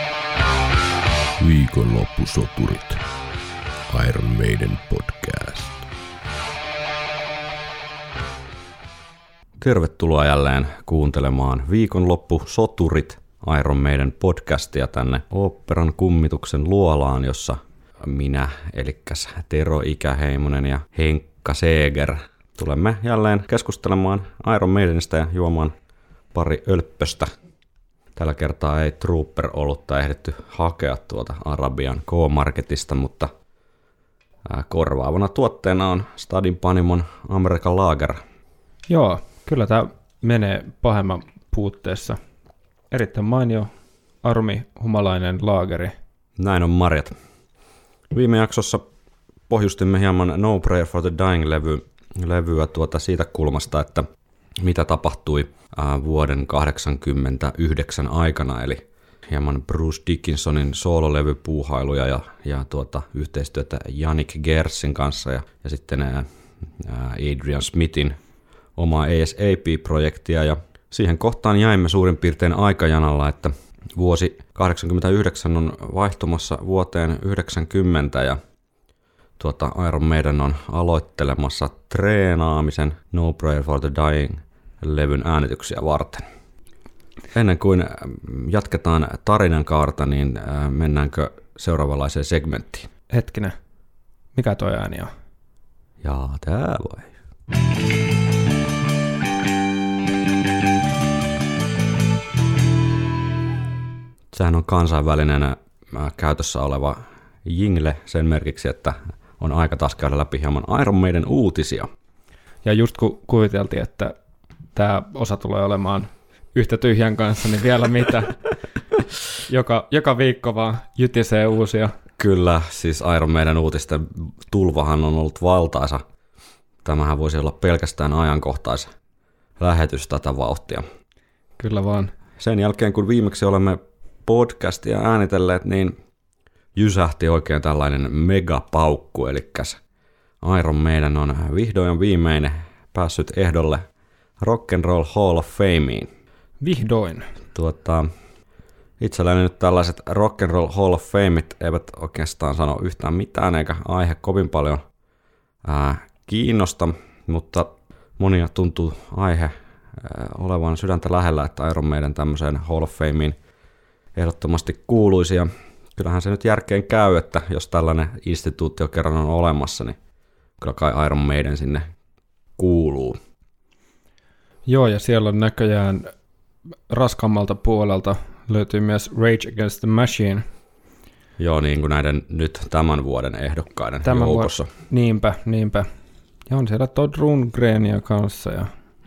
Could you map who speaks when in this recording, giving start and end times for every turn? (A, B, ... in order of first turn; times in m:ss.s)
0:01.4-0:03.0 A
0:03.9-0:05.8 A
0:09.6-0:25.7 B
0:26.3-0:27.3 B
0:28.2-0:33.3 B
0:34.4-0:38.2 B
0:38.9-0:42.2 C
0:42.9-0:43.7 C
0:44.2-0:45.9 C
0:46.4-0:47.1 B
0:48.1-0:48.8 B
0:49.5-0:54.0 B
0:54.6-1:06.3 B
1:06.8-1:08.2 B
1:08.8-1:18.4 B
1:19.4-1:26.2 B
1:27.3-1:32.9 B
1:33.1-1:33.5 C
1:34.3-1:35.1 C
1:36.0-1:37.1 B
1:44.3-1:51.9 B
1:52.6-1:54.1 C
1:54.7-1:58.4 C
1:59.5-2:01.9 C
2:02.2-2:06.0 B
2:06.8-2:08.9 B
2:09.6-2:10.8 B
2:11.6-2:12.1 C
2:12.4-2:16.0 B
2:16.7-2:19.8 B
2:20.4-2:23.8 B
2:24.4-2:26.1 B
2:26.6-2:27.3 C
2:27.5-2:28.1 B
2:29.0-2:34.8 B
2:35.6-2:43.4 B
2:44.2-2:50.0 B
2:50.6-2:51.9 B
2:52.6-2:53.2 B
2:54.7-2:56.1 C
2:56.9-3:00.4 C
3:01.4-3:04.7 B
3:04.0-3:05.9 C
3:06.5-3:08.7 C